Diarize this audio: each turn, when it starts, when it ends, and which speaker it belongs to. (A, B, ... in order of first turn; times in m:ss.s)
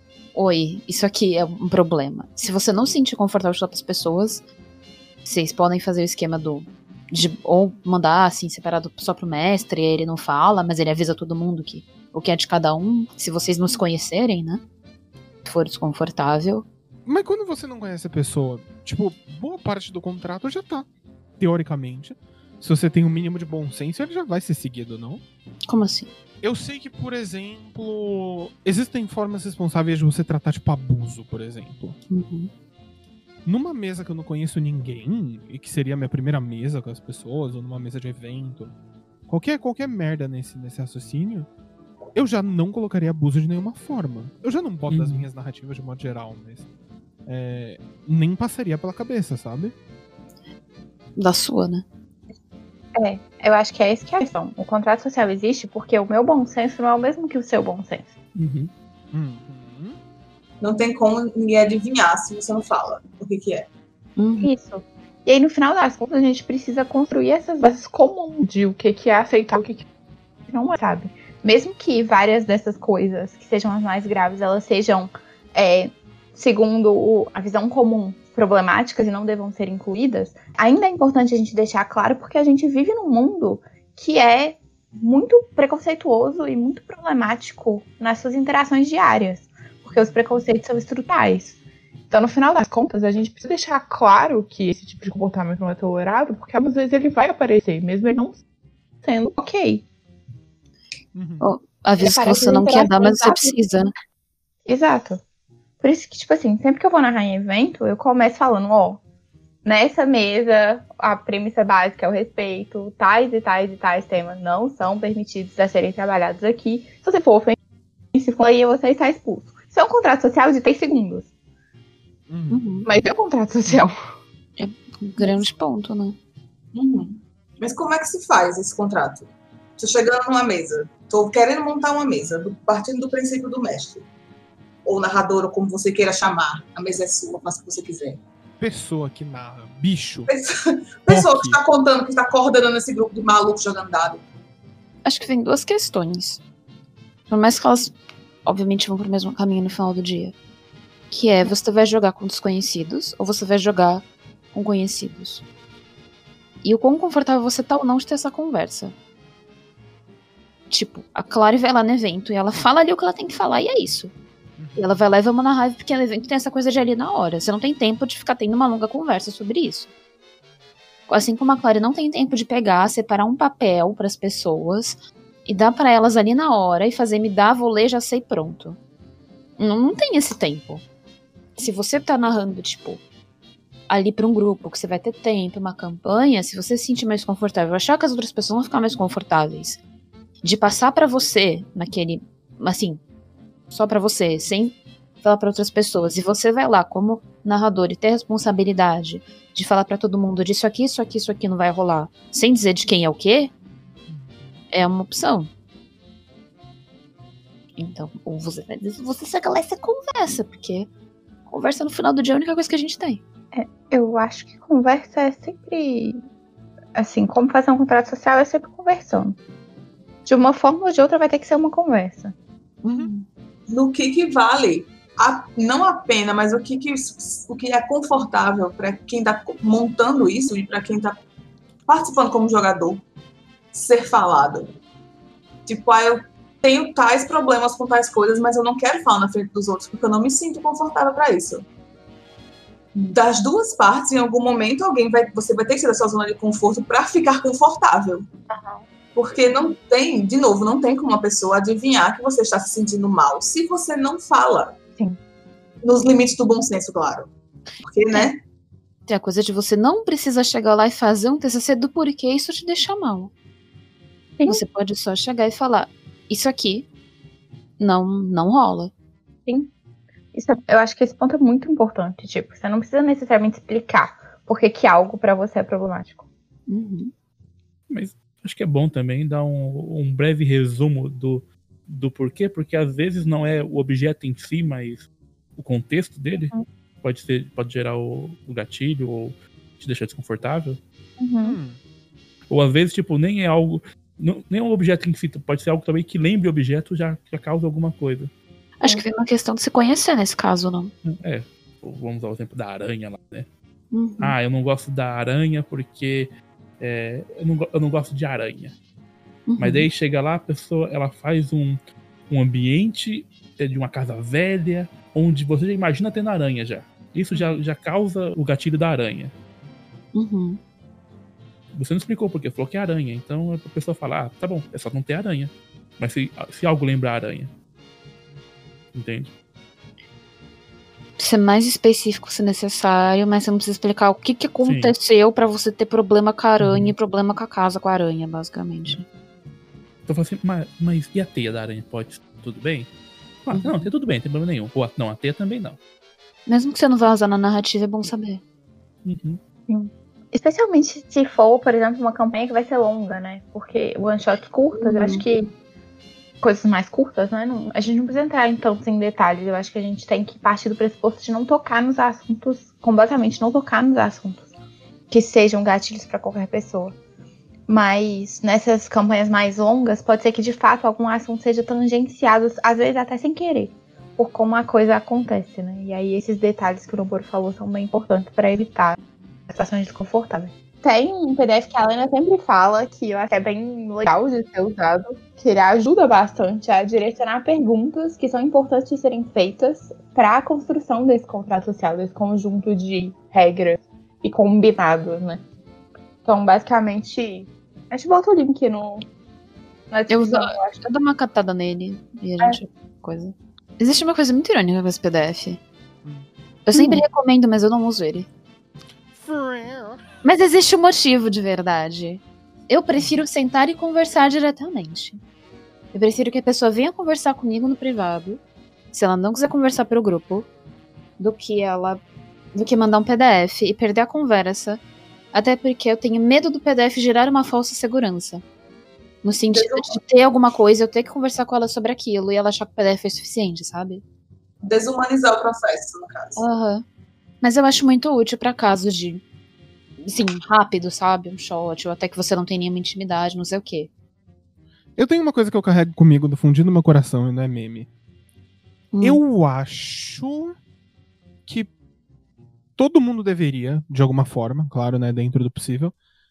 0:00.3-0:04.4 A
0:05.2-0:14.6 A
0:15.4-0:16.7 A
0:17.1-0:25.2 B
0:25.7-0:26.1 A
0:26.4-0:32.0 B
0:32.1-0:32.5 A
0:33.4-0:38.8 B
0:39.3-0:41.5 B
0:42.2-0:46.6 B
0:44.9-0:45.3 C
0:47.3-0:49.7 B
0:51.2-0:51.8 A
0:53.0-0:58.1 D
0:58.4-0:58.7 C
0:59.1-1:00.0 B
1:00.6-1:03.7 E
1:04.2-1:04.5 A
1:04.4-1:09.8 D
1:10.5-1:31.6 D
1:29.9-1:30.2 B
1:32.1-1:38.4 D
1:39.0-1:39.8 D
1:41.1-1:41.5 B
1:41.4-1:43.9 A
1:42.0-1:43.7 D
1:44.7-1:45.2 D
1:45.8-1:49.0 D
1:49.6-1:57.6 D
1:58.1-2:01.3 D
2:02.3-2:02.9 B
2:02.5-2:02.9 A
2:02.8-2:04.0 D
2:04.6-2:06.2 A
2:05.2-2:05.4 D
2:06.7-2:14.1 E
2:14.8-2:18.2 E
2:18.6-2:20.3 B
2:20.3-2:24.2 E
2:21.1-2:21.6 B
2:25.0-2:26.4 A
2:27.3-2:30.4 A
2:31.1-2:35.4 A
2:36.6-2:39.0 A
2:40.7-2:44.1 A
2:44.6-2:44.9 B
2:44.8-2:49.9 A
2:51.1-2:58.8 A
2:59.6-3:00.8 A
3:01.6-3:03.0 A
3:03.9-3:09.8 A
3:10.4-3:13.0 A
3:13.7-3:23.5 A
3:24.1-3:24.5 B
3:24.7-3:25.5 A
3:27.8-3:30.9 A
3:31.5-3:33.2 A
3:33.5-3:36.2 D
3:37.0-3:39.4 D
3:40.3-3:42.3 D
3:42.8-3:43.3 A
3:43.7-3:51.2 E
3:51.9-3:53.0 E
3:53.7-3:54.7 E
3:55.7-4:01.6 E
4:03.0-4:08.3 E
4:08.5-4:08.9 D
4:09.2-4:14.8 E
4:15.8-4:18.4 E
4:19.1-4:23.3 A
4:24.5-4:26.9 A
4:27.8-4:28.9 A
4:29.5-4:29.7 D
4:30.3-4:36.2 D
4:36.7-4:37.1 A
4:37.9-4:45.1 C
4:45.6-4:50.8 C
4:46.4-4:46.6 D
4:51.2-4:51.6 D
4:51.4-4:51.8 B
4:52.5-4:58.3 C
4:58.8-5:00.9 A
5:01.0-5:03.5 C
5:03.9-5:04.4 A
5:04.2-5:08.8 C
5:09.5-5:09.9 A
5:09.6-5:11.8 C
5:12.3-5:19.3 C
5:20.1-5:20.6 A
5:21.7-5:27.5 C
5:28.9-5:29.3 C
5:31.2-5:39.0 A
5:34.6-5:34.9 C
5:36.6-5:36.9 C
5:40.1-5:42.9 C
5:43.4-5:45.8 C
5:43.5-5:43.9 A
5:46.5-5:48.4 A
5:49.0-5:49.4 C
5:49.7-5:55.5 D
5:54.8-5:55.2 A
5:56.4-6:04.5 D
6:05.1-6:07.0 D
6:07.7-6:19.0 D
6:19.5-6:35.4 D
6:36.2-6:39.0 D
6:39.9-6:40.8 D
6:40.1-6:45.6 A
6:46.7-6:48.3 A
6:46.7-6:47.0 D
6:49.1-6:50.0 B
6:50.2-6:55.2 A
6:55.9-6:58.4 A
6:58.9-7:00.5 A
7:01.2-7:02.0 A
7:02.5-7:04.8 A
7:05.3-7:08.4 A
7:09.2-7:14.0 A
7:09.5-7:10.0 E
7:14.6-7:16.4 E
7:16.4-7:16.8 A
7:17.4-7:19.2 A
7:20.0-7:23.9 A
7:25.0-7:27.9 B
7:28.9-7:29.2 A
7:29.0-7:30.6 B
7:31.5-7:31.7 B
7:32.8-7:35.9 B